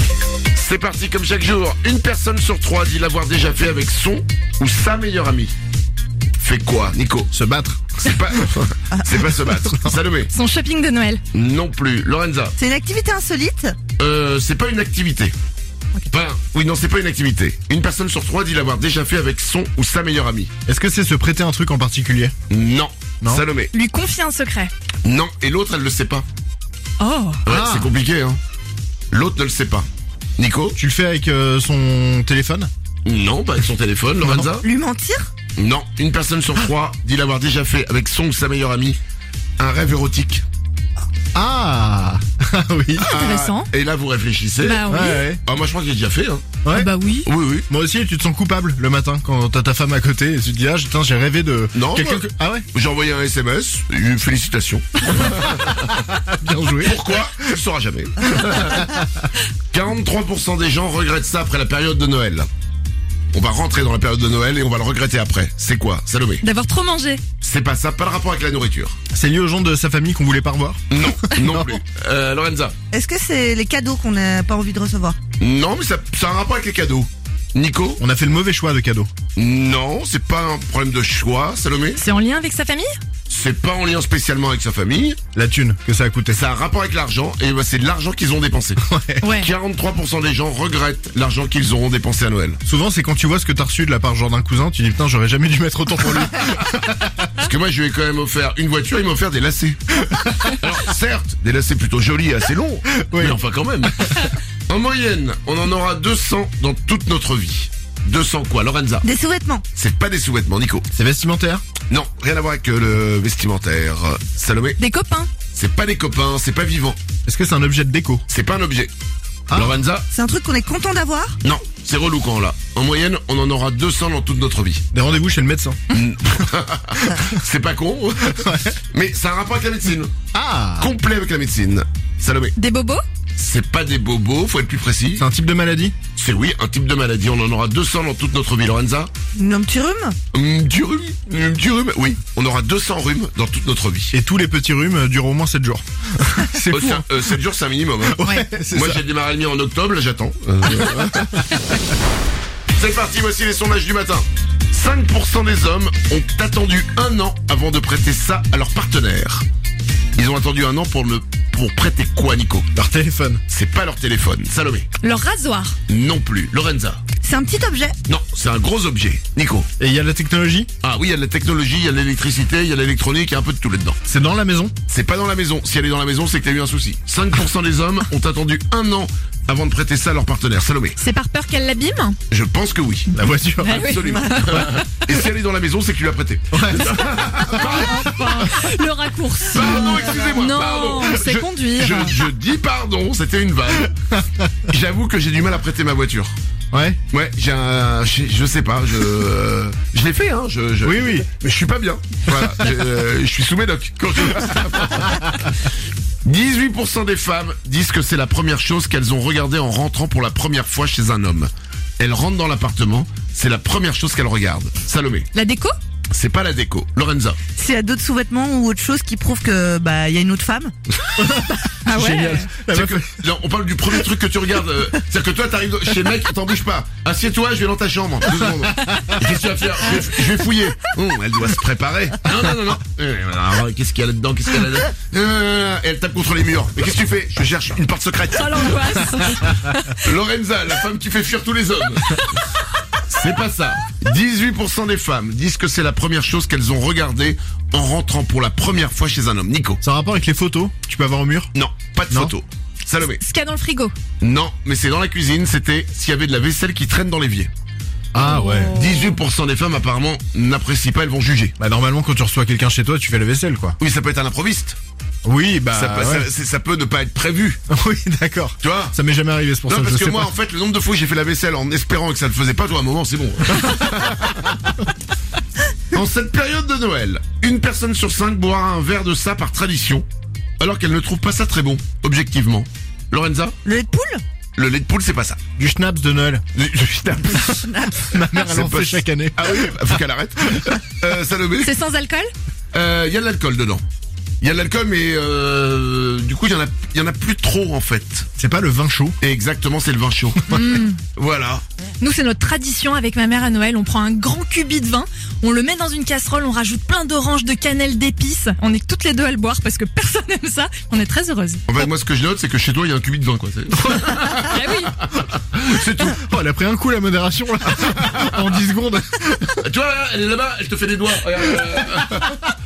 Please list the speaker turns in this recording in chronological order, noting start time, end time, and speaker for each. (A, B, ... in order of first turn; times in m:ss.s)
0:00.5-0:05.5 A
0:06.4-0:07.3 A
0:07.3-0:08.4 B
0:08.0-0:10.3 A
0:10.3-0:11.2 C
0:11.3-0:12.6 A
0:12.6-0:13.7 D
0:14.0-0:15.3 A
0:16.1-0:20.5 A
0:20.6-0:22.3 B
0:22.5-0:23.7 A
0:23.7-0:24.7 C
0:25.0-0:26.2 A
0:27.0-0:27.4 C
0:27.4-0:28.4 A
0:27.5-0:27.9 B
0:29.1-0:29.8 A
0:30.4-0:30.8 A
0:30.8-0:32.7 B
0:33.0-0:34.6 A
0:34.2-0:34.5 B
0:34.6-0:35.3 D
0:35.6-0:39.0 A
0:39.6-0:40.4 A
0:41.3-0:43.1 B
0:43.0-0:44.8 A
0:43.1-0:43.7 C
0:44.6-0:45.2 C
0:44.9-0:45.4 B
0:45.4-0:46.5 A
0:46.6-0:46.9 B
0:46.7-0:47.3 C
0:47.2-0:47.7 A
0:47.7-0:52.6 B
0:51.7-0:55.9 A
0:55.6-0:57.2 B
0:56.8-0:59.0 A
0:58.7-0:59.0 B
0:59.7-1:02.5 A
1:03.3-1:06.4 A
1:06.4-1:07.2 C
1:07.4-1:09.0 A
1:09.1-1:11.8 B
1:10.9-1:12.7 A
1:12.9-1:15.2 D
1:15.4-1:18.0 A
1:18.0-1:19.1 B
1:19.3-1:22.0 A
1:22.0-1:22.9 C
1:23.3-1:25.2 A
1:25.3-1:26.4 B
1:26.3-1:28.8 A
1:28.8-1:29.3 B
1:29.2-1:29.5 C
1:29.3-1:32.6 A
1:32.6-1:37.3 B
1:37.4-1:39.8 A
1:40.0-1:40.5 B
1:40.4-1:49.1 A
1:42.9-1:44.3 B
1:49.0-1:49.6 D
1:49.7-1:50.9 A
1:50.9-1:51.6 B
1:51.9-1:54.8 A
1:54.8-1:55.3 C
1:55.5-1:57.0 A
1:57.2-1:58.2 B
1:58.3-1:58.9 A
1:59.5-1:59.8 B
1:59.5-2:00.1 A
2:00.1-2:01.4 D
2:01.4-2:04.8 A
2:04.9-2:05.8 B
2:05.9-2:10.1 A
2:08.2-2:08.8 B
2:10.3-2:10.9 B
2:10.8-2:12.5 A
2:12.6-2:13.0 C
2:13.4-2:15.2 A
2:15.2-2:15.9 B
2:16.1-2:19.1 A
2:19.3-2:20.2 D
2:20.3-2:24.2 A
2:24.1-2:27.4 B
2:26.7-2:28.2 A
2:28.0-2:29.0 B
2:28.7-2:31.4 A
2:30.7-2:31.4 B
2:32.7-2:39.4 A
2:40.1-2:42.7 A
2:42.7-2:43.4 B
2:43.5-2:44.9 A
2:45.0-2:45.8 C
2:45.9-2:47.0 A
2:47.2-2:48.0 D
2:48.1-2:49.7 A
2:49.8-2:50.7 B
2:50.8-2:54.0 A
2:54.0-2:54.7 B
2:54.9-3:01.0 A
3:01.0-3:02.2 C
3:02.3-3:03.1 A
3:03.1-3:03.8 B
3:03.6-3:04.8 C
3:03.7-3:08.4 A
3:06.5-3:08.3 B
3:07.5-3:12.2 C
3:09.5-3:13.9 A
3:14.2-3:14.5 B
3:14.7-3:16.4 A
3:16.7-3:17.0 B
3:17.1-3:25.5 A
3:20.8-3:21.3 B
3:26.2-3:35.3 A
3:35.3-3:35.8 C
3:36.1-3:37.4 A
3:37.6-3:40.7 D
3:41.2-3:43.3 B
3:41.8-3:42.5 C
3:42.7-3:59.0 A
3:58.3-4:00.0 C
4:00.0-4:02.4 A
4:03.0-4:09.8 A
4:09.8-4:11.5 B
4:11.5-4:13.2 A
4:13.2-4:13.9 C
4:14.2-4:17.5 A
4:18.1-4:18.8 B
4:18.2-4:19.1 C
4:18.7-4:21.5 A
4:21.6-4:23.8 B
4:23.8-4:24.8 A
4:25.2-4:26.3 B
4:25.7-4:27.6 A
4:27.7-4:30.3 B
4:28.6-4:29.0 A
4:29.6-4:34.6 A
4:35.9-4:40.0 A
4:40.6-4:43.6 A
4:43.6-4:44.2 D
4:44.5-4:45.4 A
4:45.6-4:46.5 B
4:46.5-4:47.8 A
4:47.1-4:49.7 B
4:47.7-4:48.0 D
4:48.5-4:51.7 A
4:51.6-4:52.3 C
4:52.7-4:53.8 A
4:54.4-4:58.3 A
4:58.4-4:59.2 B
4:59.2-5:01.6 A
5:00.5-5:01.0 C
5:02.0-5:11.8 C
5:11.7-5:16.2 A
5:14.5-5:14.9 C
5:16.0-5:19.6 B
5:19.6-5:22.4 A